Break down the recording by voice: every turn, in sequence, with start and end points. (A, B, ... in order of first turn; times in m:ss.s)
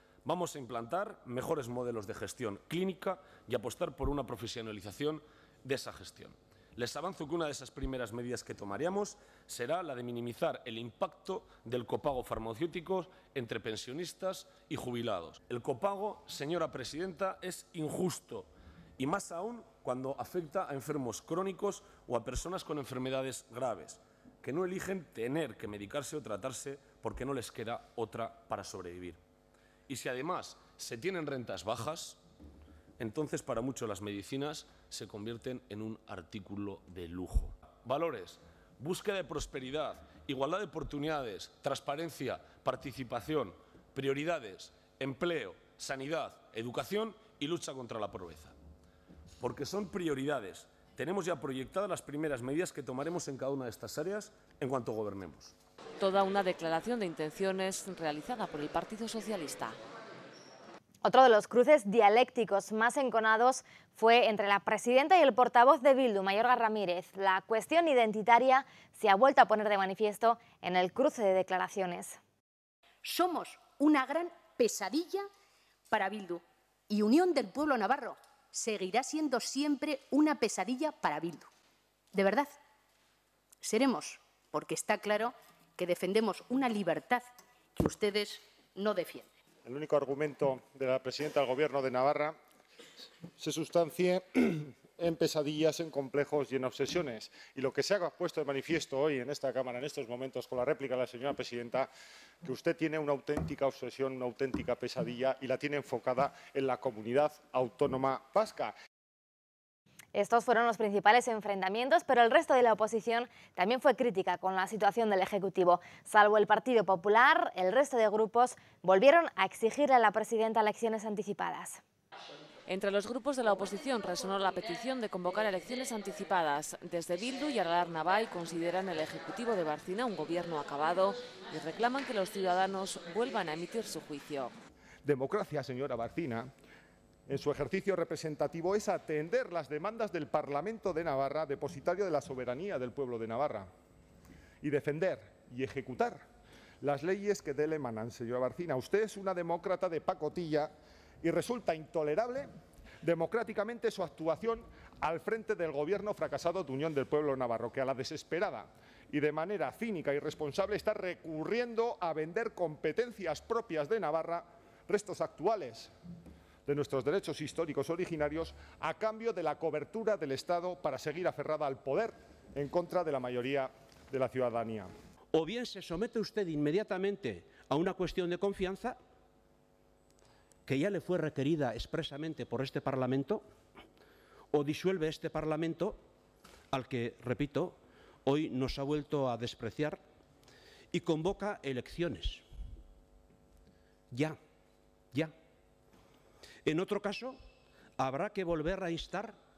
0:00.2-0:29.2 A
0:29.9-0:32.2 A
0:33.0-0:48.5 A
0:49.4-0:55.5 A
0:56.0-0:59.8 B
1:01.0-1:12.2 C
1:13.0-1:15.3 D
1:15.9-1:21.5 D
1:22.1-1:22.6 D
1:23.6-1:29.3 D
1:29.6-1:32.4 E
1:33.4-1:41.9 E
1:42.4-1:48.7 E
1:50.1-2:01.8 C
2:02.7-2:14.6 B
2:15.0-2:16.5 E
2:17.3-2:23.7 E
2:24.6-2:26.3 E
2:26.8-2:32.5 E
2:33.0-2:45.9 E
2:46.7-2:54.9 E
2:55.3-2:59.0 F
3:00.7-3:03.4 F
3:04.5-3:06.0 F
3:06.7-3:10.0 F
3:10.9-3:12.4 F
3:14.1-3:14.4 F
3:16.6-3:17.4 F
3:18.0-3:19.4 F